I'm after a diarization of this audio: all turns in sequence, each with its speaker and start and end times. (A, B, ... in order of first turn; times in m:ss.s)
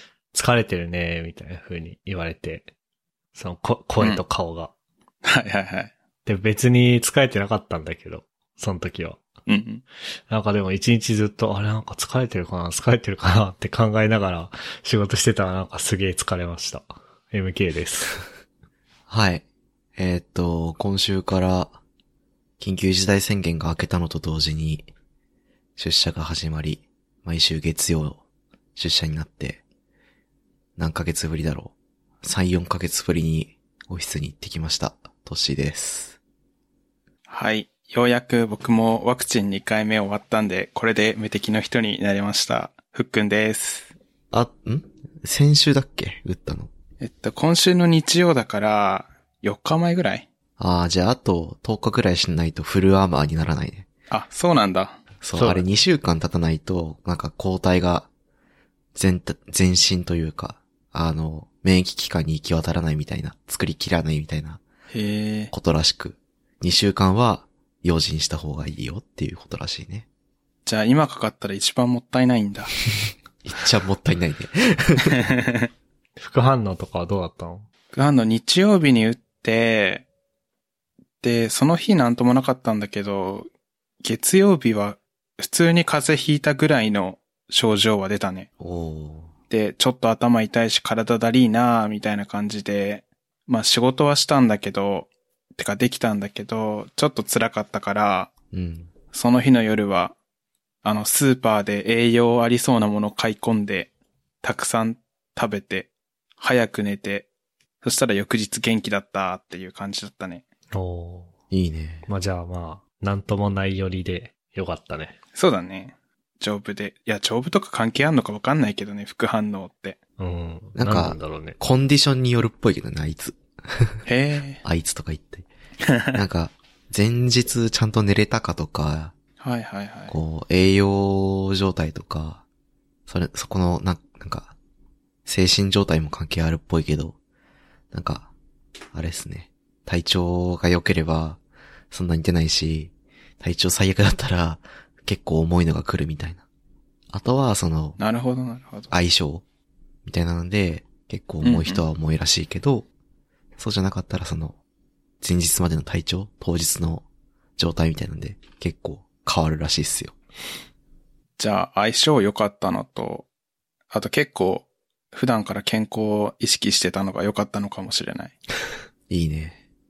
0:00.3-0:02.7 A
0:03.3-0:04.7 A
0:05.2-0:05.9 B
0:06.2-0:09.2 A
0:09.5-0:09.8 B
0:10.3-0:18.2 A
0:19.1-0:19.4 C
0:20.0-0:21.8 C
0:22.6-0:24.9 C
0:25.8-0:28.2 C
0:28.8-0:29.6 C
0:30.8-0:36.2 C
0:37.3-0:43.9 B
0:44.3-0:46.7 C
0:47.0-0:50.3 B
0:50.6-0:53.9 C
0:54.1-0:55.0 B
0:55.2-0:58.1 C
0:55.3-0:55.6 A
0:58.9-1:04.6 C
1:04.9-1:05.5 B
1:05.5-1:10.0 C
1:10.6-1:12.8 B
1:13.4-1:15.3 C
1:15.1-1:15.6 B
1:16.2-1:17.6 A
1:17.9-1:20.0 B
1:21.2-1:23.5 B
1:24.0-1:28.5 B
1:28.6-1:29.3 C
1:29.5-1:38.3 B
1:38.5-1:38.9 C
1:39.1-1:40.2 B
1:40.8-1:43.9 B
1:44.4-1:47.3 B
1:47.8-1:50.4 B
1:50.7-1:51.3 A
1:51.5-1:52.0 C
1:52.1-1:55.2 A
1:55.3-2:00.0 B
2:00.2-2:01.6 A
2:00.7-2:04.0 C
2:04.0-2:04.6 B
2:04.6-2:05.5 C
2:05.9-2:06.1 B
2:06.1-2:09.1 C
2:09.4-2:10.1 B
2:10.1-2:12.4 C
2:13.1-2:14.5 C
2:15.2-2:17.2 C
2:17.9-2:18.3 C
2:18.9-2:21.4 C
2:21.9-2:26.4 C
2:27.1-2:28.0 C
2:28.0-2:28.9 B
2:28.9-2:29.4 C
2:30.0-2:32.9 C
2:31.4-2:31.8 B
2:33.6-2:34.6 C
2:35.2-2:37.0 C
2:37.6-2:40.2 C
2:41.4-2:43.3 B
2:43.9-2:48.3 B
2:49.1-2:49.6 C